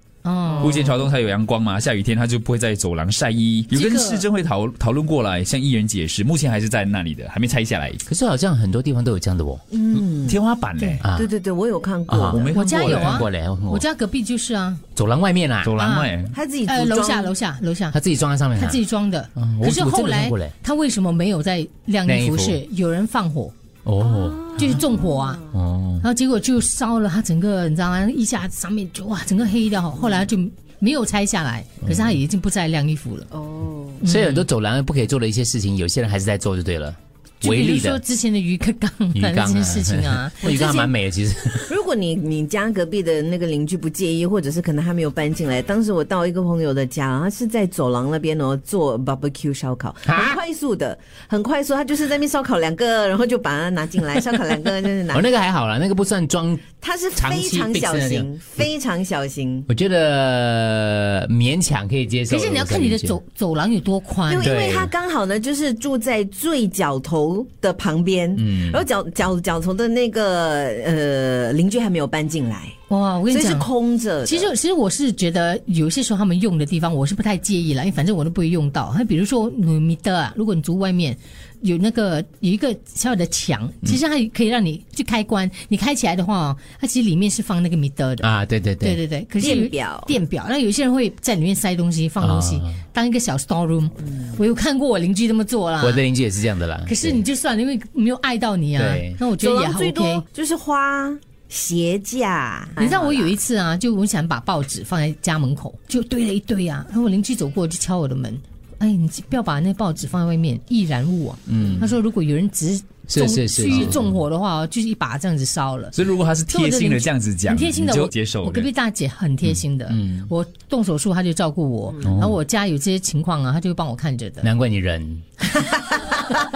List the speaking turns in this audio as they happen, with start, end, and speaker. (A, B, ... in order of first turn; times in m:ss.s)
0:00.2-0:00.9 A
0:00.5-0:00.9 B
0:00.6-0:08.0 C
0:03.7-0:04.2 A
0:08.0-0:09.6 D
0:09.7-0:10.4 B
0:09.9-0:11.0 C
0:11.0-0:11.3 D
0:11.1-0:12.6 B
0:12.1-0:13.8 D
0:12.3-0:13.3 C
0:12.5-0:14.8 A
0:15.0-0:15.7 D
0:15.6-0:16.3 C
0:15.8-0:16.1 A
0:16.3-0:17.3 B
0:16.7-0:18.0 A
0:17.9-0:18.8 D
0:18.6-0:23.5 A
0:19.4-0:20.5 D
0:22.0-0:22.6 D
0:23.8-0:24.8 D
0:24.0-0:25.4 B
0:24.6-0:25.4 A
0:25.5-0:26.0 D
0:26.0-0:33.3 A
0:30.0-0:30.3 B
0:31.8-0:32.2 D
0:33.3-0:34.0 B
0:34.0-0:34.4 A
0:34.0-0:38.0 D
0:37.4-0:40.9 A
0:39.1-0:41.7 D
0:41.6-0:55.3 B
0:50.0-0:50.4 D
0:55.1-0:58.3 D
0:56.8-0:59.7 B
0:59.7-1:03.2 D
1:02.3-1:04.6 A
1:04.3-1:12.8 B
1:04.4-1:04.9 D
1:08.4-1:08.8 D
1:12.9-1:13.7 A
1:13.3-1:14.5 B
1:14.2-1:28.3 A
1:28.2-1:29.0 D
1:28.8-1:36.0 A
1:29.4-1:30.2 B
1:32.2-1:32.8 D
1:35.8-1:37.2 D
1:36.8-1:40.2 A
1:38.8-1:39.2 D
1:39.4-1:43.3 B
1:42.8-1:55.9 A
1:51.5-1:52.0 D
1:53.1-1:54.2 D
1:53.7-1:53.9 C
1:55.9-1:58.7 C
1:56.5-2:04.5 A
1:59.4-2:00.3 D
2:02.0-2:02.4 D
2:04.4-2:05.2 D